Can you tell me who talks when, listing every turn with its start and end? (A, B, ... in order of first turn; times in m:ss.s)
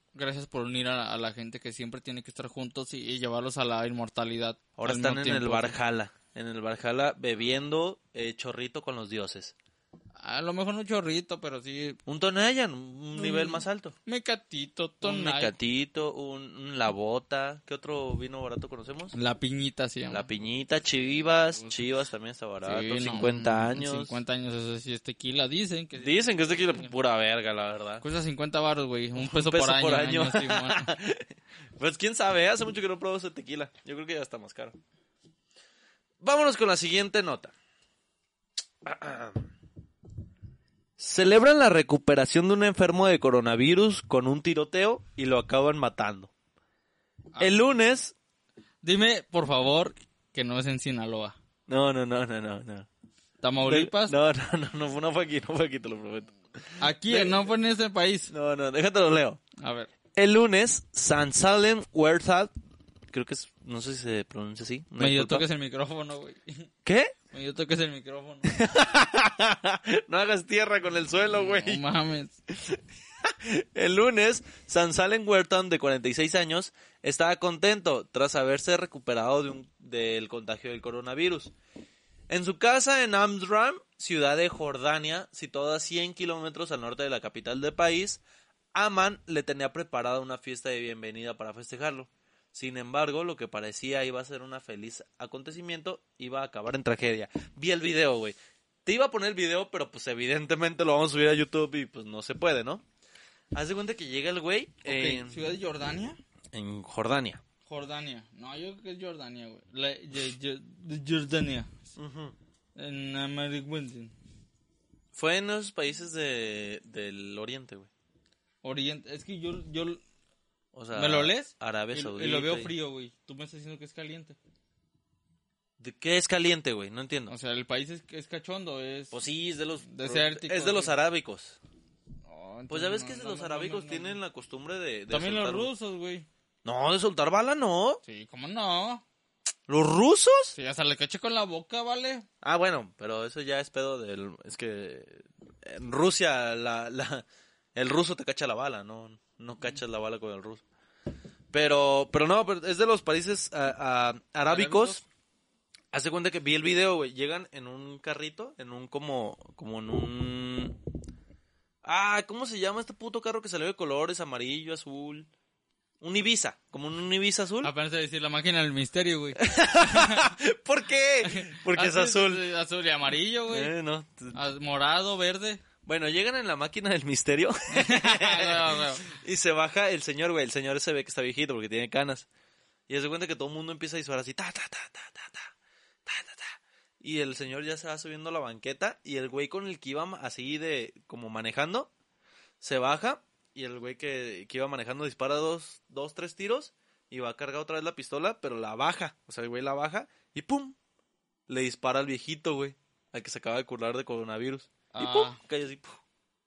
0:00.1-0:05.8 A
0:04.8-0:09.5 B
0:10.2-0:12.0 A
0:12.1-0:13.9 B
0:13.2-0:15.5 A
0:15.0-0:19.1 B
0:19.1-0:20.3 A
0:20.1-0:24.1 B
0:22.6-0:26.9 A
0:26.0-0:28.0 B
0:28.0-0:30.9 A
0:29.2-0:34.8 B
0:36.2-0:37.5 B
0:38.8-0:39.5 B
0:41.0-0:46.3 B
0:47.4-0:48.1 B
0:48.8-0:51.4 A
0:51.7-0:52.9 B
0:53.4-0:54.2 A
0:53.6-0:57.5 B
0:56.8-0:58.3 A
0:58.3-0:59.4 B
0:59.6-0:59.9 A
1:00.1-1:02.5 B
1:03.1-1:05.4 B
1:05.0-1:06.7 A
1:06.8-1:07.1 B
1:07.3-1:08.5 A
1:08.4-1:11.8 B
1:11.3-1:12.4 A
1:12.5-1:21.5 B
1:22.3-1:28.2 B
1:28.7-1:42.8 B
1:43.5-1:45.4 B
1:44.8-1:46.2 A
1:46.5-1:47.4 B
1:47.6-1:51.8 A
1:52.0-1:52.4 B
1:52.8-1:54.1 A
1:55.1-1:57.9 B
1:58.6-2:00.0 A
2:00.7-2:02.7 B
2:00.9-2:04.4 A
2:05.8-2:07.3 B
2:07.3-2:09.1 A
2:09.1-2:11.6 B
2:09.8-2:10.9 A
2:12.2-2:14.2 A
2:12.7-2:15.7 B
2:15.1-2:16.2 A
2:16.6-2:18.0 B
2:18.0-2:19.0 A
2:19.7-2:20.6 B
2:20.5-2:22.2 A
2:22.4-2:30.6 B
2:31.5-2:35.0 B
2:34.5-2:35.0 A
2:35.9-2:40.8 B
2:41.8-2:45.3 B
2:46.0-2:47.7 B
2:47.6-2:50.3 A
2:49.4-2:52.4 B
2:51.2-2:53.7 A
2:53.5-2:54.4 B
2:54.3-2:55.6 A
2:55.8-3:02.3 B
2:57.7-2:59.1 A
3:02.9-3:05.5 B
3:06.0-3:11.9 B
3:12.6-3:20.8 B
3:21.5-3:26.0 B
3:24.9-3:25.4 A